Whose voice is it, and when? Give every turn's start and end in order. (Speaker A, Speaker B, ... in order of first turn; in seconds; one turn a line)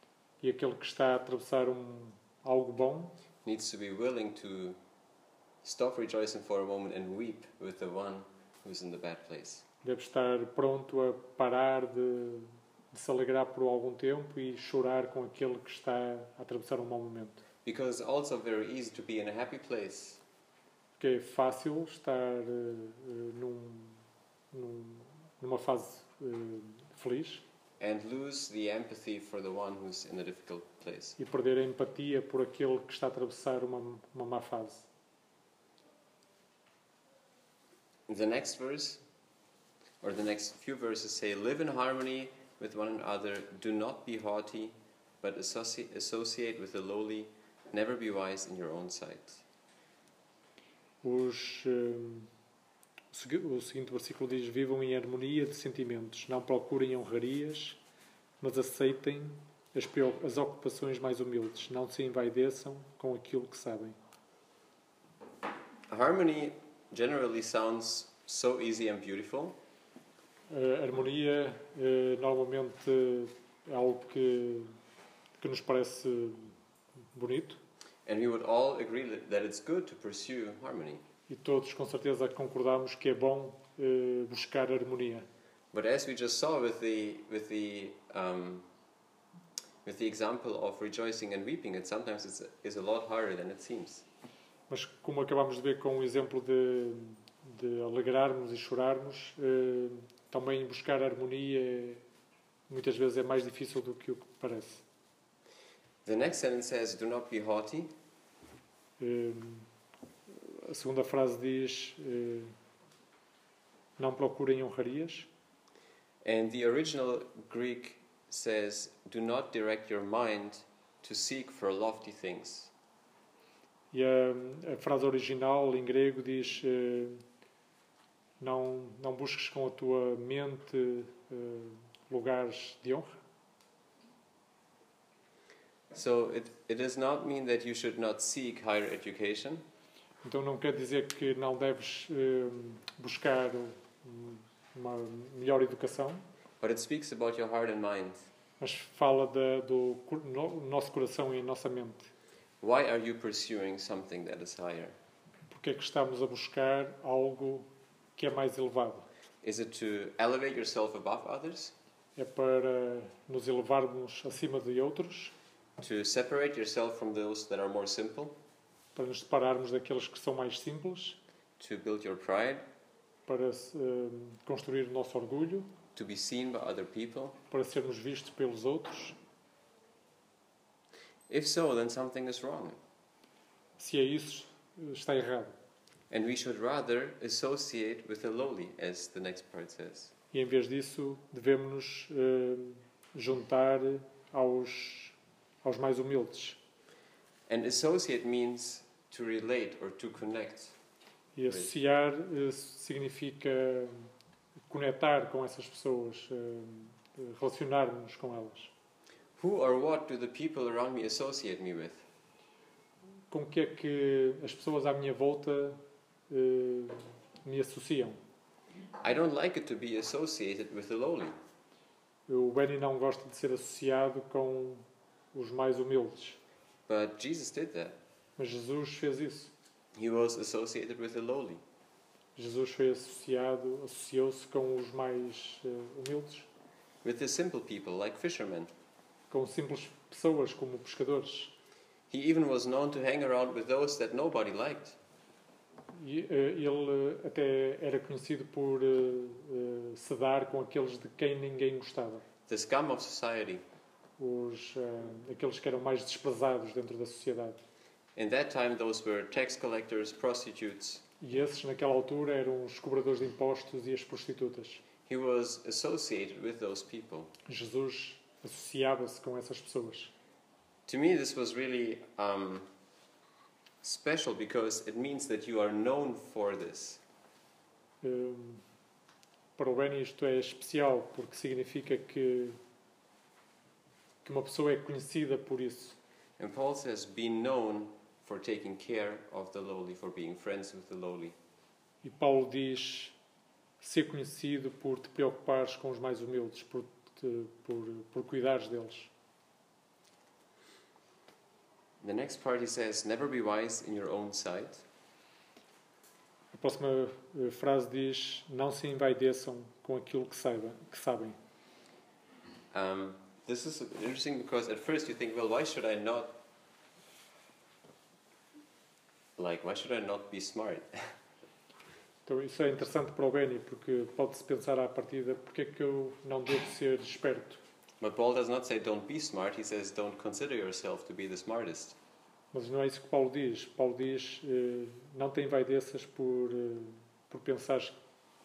Speaker A: 0.4-3.1
Speaker B: 3.4-4.8
Speaker B: 5.6-9.6
Speaker A: 9.8-17.4
Speaker B: 17.6-20.2
Speaker A: 21.0-27.4
Speaker B: 27.8-31.2
Speaker A: 31.2-34.9
Speaker B: 38.1-39.0
Speaker B: 40.0-49.4
Speaker A: 51.0-52.3
Speaker A: 53.1-57.8
Speaker A: 58.4-64.0
Speaker B: 65.9-69.5
Speaker A: 70.5-74.7
Speaker A: 75.4-76.5
Speaker A: 77.1-77.6
Speaker B: 78.0-81.0
Speaker A: 81.3-85.3
Speaker B: 85.7-88.7
Speaker B: 89.8-94.0
Speaker A: 94.7-102.0
Speaker A: 102.7-104.8
Speaker B: 106.0-107.9
Speaker A: 109.0-109.7
Speaker A: 110.3-112.5
Speaker A: 114.0-115.3
Speaker B: 116.2-122.7
Speaker A: 123.9-127.2
Speaker A: 128.4-133.2
Speaker B: 135.9-139.6
Speaker A: 140.2-146.2
Speaker B: 146.6-148.3
Speaker A: 148.6-152.1
Speaker B: 152.6-154.9
Speaker A: 155.5-159.1
Speaker B: 159.4-161.7
Speaker A: 162.2-165.3
Speaker B: 165.8-168.3
Speaker A: 168.9-171.2
Speaker B: 171.6-172.6
Speaker A: 173.3-175.7
Speaker B: 175.9-177.4
Speaker A: 177.5-179.2
Speaker B: 181.3-182.8
Speaker A: 183.8-185.5
Speaker B: 186.1-190.1
Speaker A: 190.3-196.6
Speaker B: 197.5-200.8
Speaker A: 201.3-204.1
Speaker A: 204.7-208.7
Speaker B: 209.4-212.0
Speaker A: 213.3-218.2
Speaker B: 219.0-221.3
Speaker A: 222.3-226.4
Speaker B: 226.9-227.9
Speaker A: 228.4-229.5
Speaker B: 229.9-231.6
Speaker A: 232.3-236.5
Speaker B: 237.0-238.7
Speaker A: 239.3-241.5
Speaker B: 242.1-245.0
Speaker A: 245.9-252.2
Speaker B: 252.5-253.6
Speaker A: 254.2-257.6
Speaker B: 258.1-261.0
Speaker A: 261.2-264.8
Speaker B: 265.1-267.3
Speaker A: 267.4-270.1
Speaker B: 270.9-272.7
Speaker B: 273.8-277.0
Speaker A: 278.0-278.6
Speaker A: 279.6-282.6
Speaker A: 284.2-285.9
Speaker B: 286.4-291.4
Speaker A: 292.0-293.1
Speaker A: 293.8-299.1
Speaker B: 302.0-304.8
Speaker A: 306.5-311.4
Speaker B: 312.7-316.4
Speaker B: 319.4-321.1
Speaker A: 322.2-327.6
Speaker B: 328.0-332.0
Speaker A: 332.5-337.9